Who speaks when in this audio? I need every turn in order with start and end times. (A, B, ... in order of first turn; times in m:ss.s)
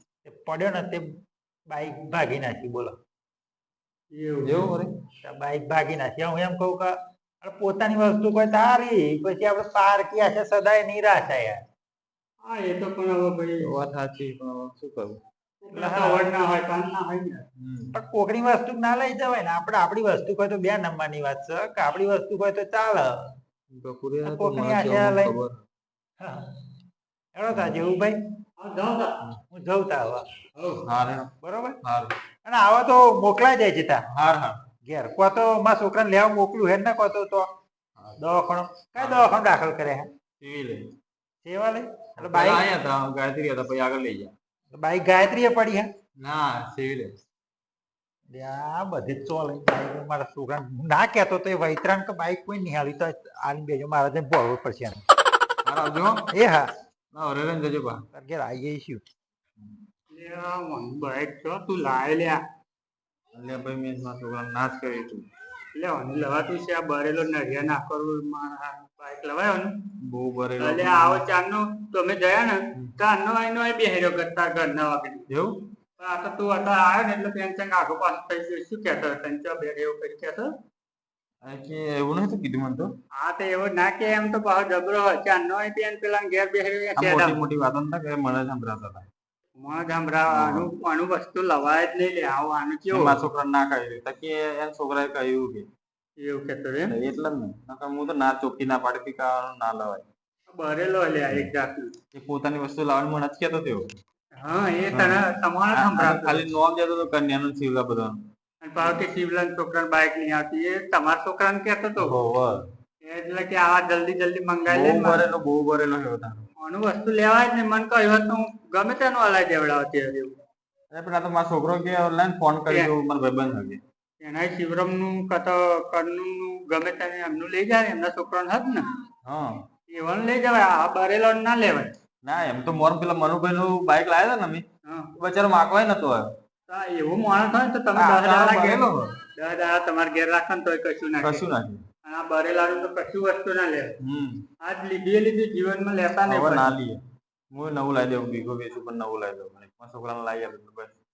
0:00.2-0:01.1 A
0:01.7-0:03.0 A
0:04.1-0:04.7 B
0:04.4-0:04.9 C
0:05.2-0:11.6 A
0:12.4-0:13.7 B
0:13.6-0:15.2 C
0:15.6-0:17.4 B
0:15.7-0:16.3 A
0:17.6-0:17.9 C
0:17.9-0:23.3 A
0:23.7-0:25.6 C
0:24.2-0:25.4 A
0:26.2-0:26.6 A
0:27.4-0:28.2 A
0:28.6-0:29.2 B
0:29.5-0:30.2 A
0:30.8-0:32.1 C
0:31.4-0:31.8 A
0:32.4-0:34.0 A
0:34.1-0:34.6 C
0:34.8-0:37.5 A
0:38.2-0:40.1 A
0:39.0-0:39.3 C
0:40.4-0:40.9 C
0:41.4-0:42.7 A
0:42.2-0:44.3 C
0:44.7-0:45.9 A
0:46.2-0:47.2 C
0:48.3-0:55.0 A
0:55.6-0:56.3 C
0:56.3-0:56.7 A
0:57.1-0:58.0 C
0:58.1-0:59.0 A
1:00.1-1:02.4 B
1:03.3-1:05.2 C
1:05.8-1:09.7 B
1:10.0-1:11.2 C
1:10.6-1:15.2 B
1:15.3-1:15.6 C
1:16.0-1:20.5 B
1:21.4-1:22.9 C
1:23.2-1:27.4 B
1:27.0-1:29.1 C
1:29.6-1:33.2 B
1:30.3-1:30.7 C
1:32.9-1:35.7 C
1:36.2-1:37.0 B
1:36.9-1:40.1 C
1:40.5-1:41.9 B
1:42.1-1:43.9 C
1:44.4-1:46.5 B
1:44.9-1:48.2 C
1:48.6-1:52.1 B
1:52.0-1:52.6 C
1:53.0-1:55.2 B
1:54.7-1:56.5 C
1:56.6-2:00.4 B
2:00.9-2:03.8 C
2:04.2-2:08.9 B
2:09.2-2:09.6 C
2:09.9-2:11.9 B
2:12.2-2:14.6 C
2:15.2-2:16.3 C
2:16.7-2:21.4 B
2:18.0-2:19.1 C
2:21.2-2:21.8 C
2:22.0-2:24.0 B
2:24.0-2:24.4 C
2:24.6-2:26.7 B
2:26.2-2:27.0 C
2:27.5-2:31.0 C